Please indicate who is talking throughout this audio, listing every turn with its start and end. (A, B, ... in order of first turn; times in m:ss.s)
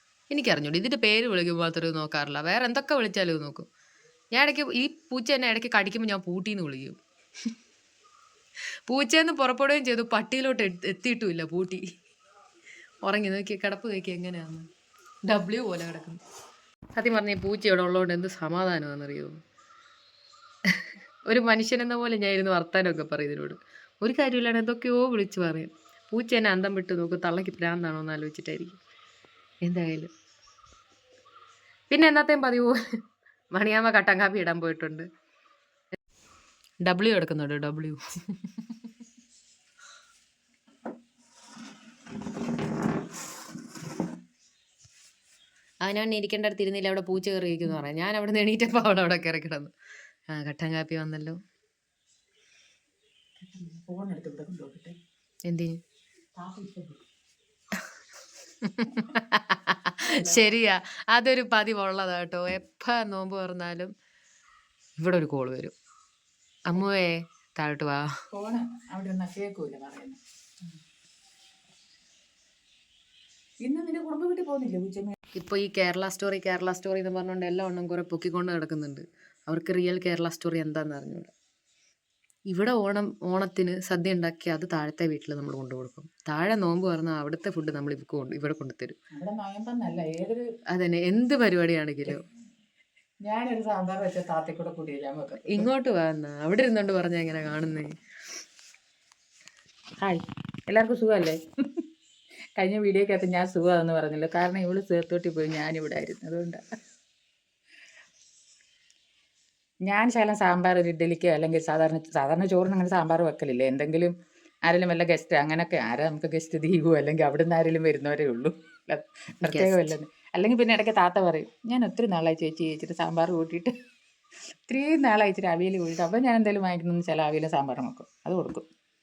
0:00.3-0:03.7 A
0:04.3-0:07.0 A
0:08.9-0:11.8 A
0:13.0-0:14.7 A
0:15.2-0:16.2 A
0:16.9-0:19.4 A
0:20.6-0:28.8 A
0:29.6-0:30.1 A
0:31.9-0:32.8 A
0:33.5-0:35.1 A
0:36.8-0:38.0 A
0:45.8-0:49.7 A
0:50.3-0:51.4 A
0:53.4-0:55.0 B
0:55.5-0:55.8 A
0:56.4-0:57.0 B
0:58.6-1:03.9 A
1:00.0-1:00.5 B
1:05.0-1:05.7 A
1:06.7-1:08.1 A
1:08.3-1:10.2 B
1:13.6-1:15.2 B
1:15.3-1:21.3 A
1:22.5-1:29.0 A
1:29.1-1:30.4 B
1:30.7-1:32.2 A
1:33.2-1:35.7 B
1:35.4-1:37.9 A
1:40.0-1:41.4 B
1:42.6-1:46.6 B
1:49.9-1:54.1 B
1:54.7-2:03.7 B
1:59.4-1:59.9 A
2:04.7-2:08.6 B